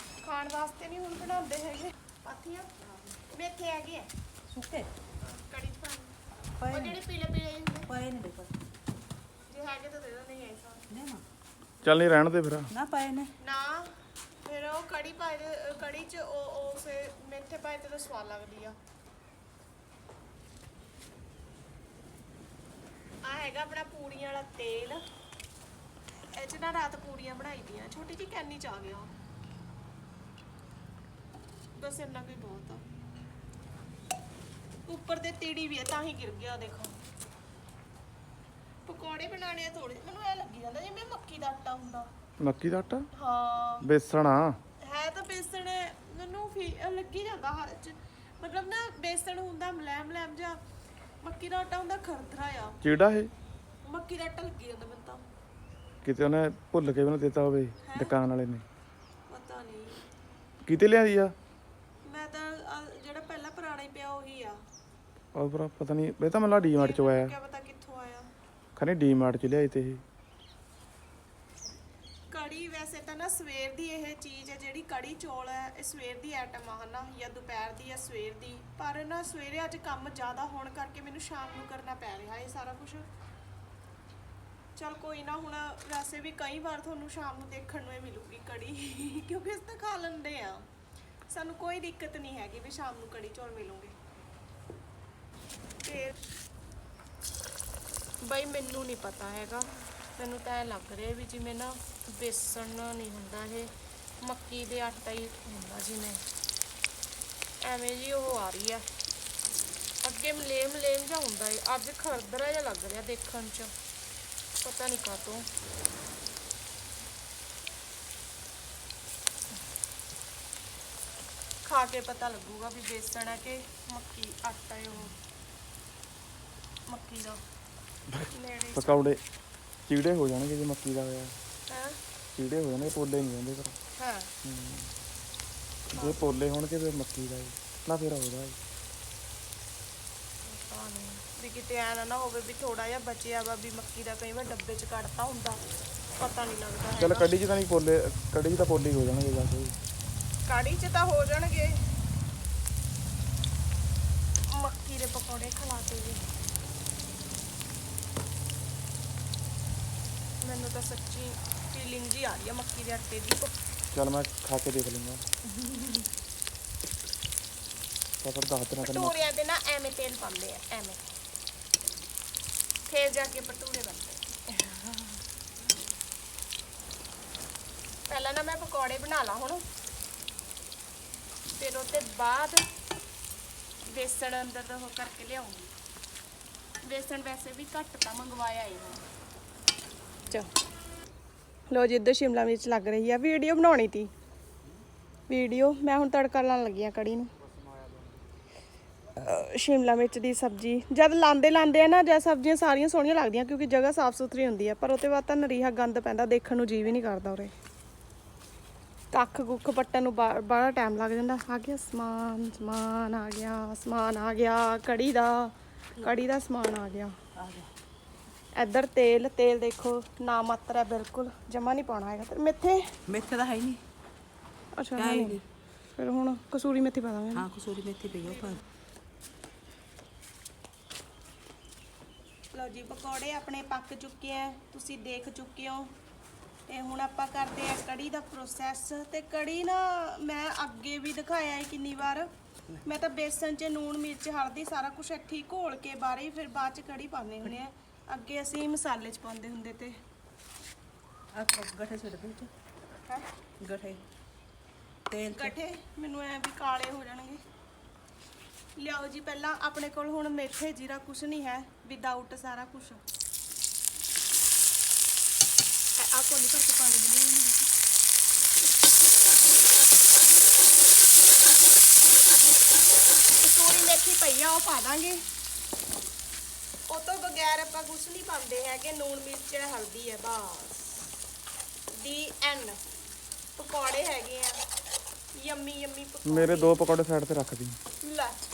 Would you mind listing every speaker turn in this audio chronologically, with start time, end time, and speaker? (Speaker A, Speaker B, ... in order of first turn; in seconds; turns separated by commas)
Speaker A: 0.2-2.7, Speaker B: 2.8-3.1, Speaker A: 3.3-4.1, Speaker B: 4.5-4.9, Speaker A: 5.2-6.1, Speaker B: 6.6-7.0, Speaker A: 6.7-7.9, Speaker B: 7.9-8.5, Speaker A: 9.5-10.8, Speaker B: 10.9-11.2, Speaker C: 11.8-12.7, Speaker B: 12.7-13.3, Speaker A: 13.4-13.9, Speaker A: 14.4-18.8, Speaker A: 23.2-25.0, Speaker A: 26.3-29.1, Speaker A: 31.8-32.8, Speaker A: 34.9-37.0, Speaker A: 38.9-42.1, Speaker C: 42.4-43.1, Speaker A: 43.1-43.9, Speaker C: 43.8-44.6, Speaker A: 44.8-50.6, Speaker A: 51.2-52.8, Speaker C: 52.8-53.3, Speaker A: 53.8-55.2, Speaker C: 56.0-58.6, Speaker A: 57.8-58.2, Speaker A: 59.3-60.1, Speaker C: 60.7-61.3, Speaker A: 62.0-64.6, Speaker C: 65.3-67.3, Speaker A: 66.7-68.3, Speaker C: 68.8-70.0, Speaker A: 72.3-83.0, Speaker A: 84.8-90.7, Speaker A: 91.3-93.9, Speaker A: 95.8-96.2, Speaker A: 98.2-106.2, Speaker A: 107.6-108.9, Speaker A: 110.0-113.7, Speaker A: 114.6-115.5, Speaker A: 121.6-125.2, Speaker A: 126.9-127.4, Speaker C: 128.1-129.2, Speaker A: 128.3-129.1, Speaker C: 129.9-131.3, Speaker A: 131.7-132.0, Speaker C: 132.4-133.8, Speaker A: 134.0-134.3, Speaker C: 134.4-134.9, Speaker C: 135.9-138.6, Speaker A: 135.9-136.2, Speaker A: 140.4-145.6, Speaker A: 146.2-147.3, Speaker C: 147.0-149.8, Speaker A: 150.5-151.8, Speaker A: 154.5-156.2, Speaker A: 160.4-163.5, Speaker C: 163.9-165.3, Speaker C: 168.2-169.2, Speaker A: 168.8-171.0, Speaker A: 172.9-174.9, Speaker A: 178.1-179.6, Speaker A: 181.6-182.6, Speaker A: 183.9-185.7, Speaker A: 186.8-189.0, Speaker A: 191.7-194.1, Speaker A: 195.3-197.3, Speaker A: 199.2-207.5, Speaker A: 209.1-217.2, Speaker B: 217.3-217.7, Speaker A: 218.5-222.9, Speaker B: 223.1-223.8, Speaker A: 224.8-225.4, Speaker B: 224.9-225.4, Speaker A: 225.9-227.5, Speaker B: 227.3-228.6, Speaker A: 228.2-228.6, Speaker A: 232.5-235.9, Speaker A: 236.7-242.3, Speaker A: 242.8-249.9, Speaker B: 251.3-252.5, Speaker B: 253.6-254.0, Speaker B: 255.1-255.5, Speaker A: 255.3-257.4, Speaker A: 258.8-263.0, Speaker A: 266.0-267.7, Speaker A: 273.4-275.2, Speaker A: 276.9-281.1, Speaker A: 281.9-282.8, Speaker A: 283.6-284.6, Speaker A: 285.3-286.9, Speaker C: 286.2-287.8, Speaker A: 288.0-288.4